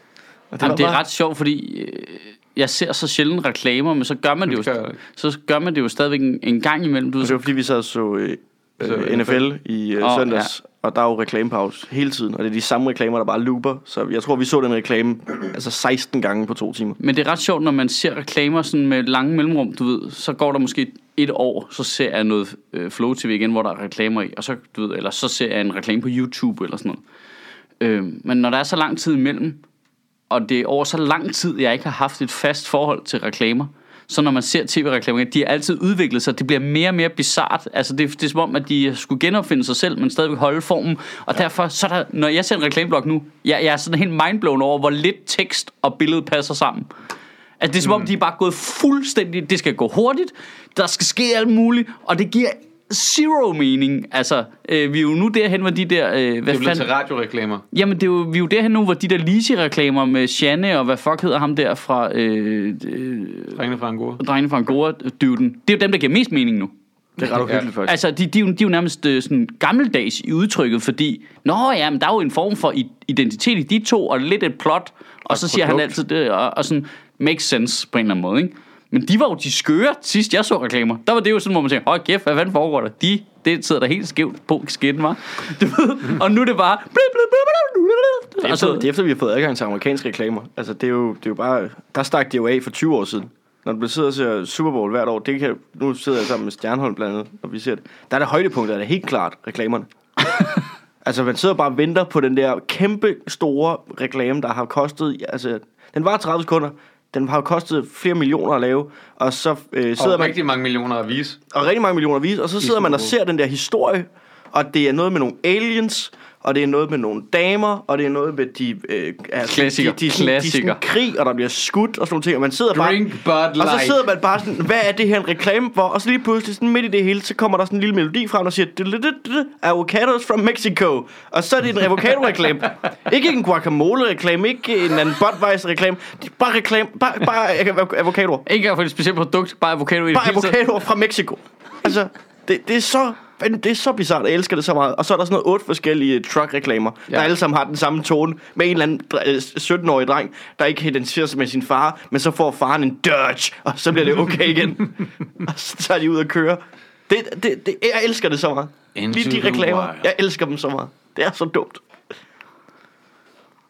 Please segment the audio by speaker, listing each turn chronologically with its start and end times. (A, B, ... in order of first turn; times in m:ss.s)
0:00.5-0:01.0 A
0:00.6-0:07.4 B
0:04.5-0:05.0 C
0:07.2-0:17.0 A
0:08.8-0:09.4 C
0:10.0-0:10.5 B
0:17.0-0:27.0 B
0:27.8-0:29.6 B
0:30.3-0:46.9 B
0:47.6-0:56.9 B
0:47.8-0:48.1 C
0:56.5-0:57.6 C
0:57.7-1:03.6 B
1:03.6-1:04.2 C
1:04.2-1:06.7 B
1:07.2-1:08.0 A
1:07.2-1:07.7 C
1:07.8-1:28.9 B
1:15.3-1:16.0 A
1:28.4-1:39.9 A
1:41.0-1:50.4 A
1:50.0-1:51.4 C
1:51.5-2:03.0 A
1:52.6-1:53.1 C
1:59.4-2:00.8 B
2:02.7-2:04.0 C
2:03.6-2:18.4 A
2:18.4-2:20.6 B
2:20.1-2:41.8 A
2:38.9-2:40.1 C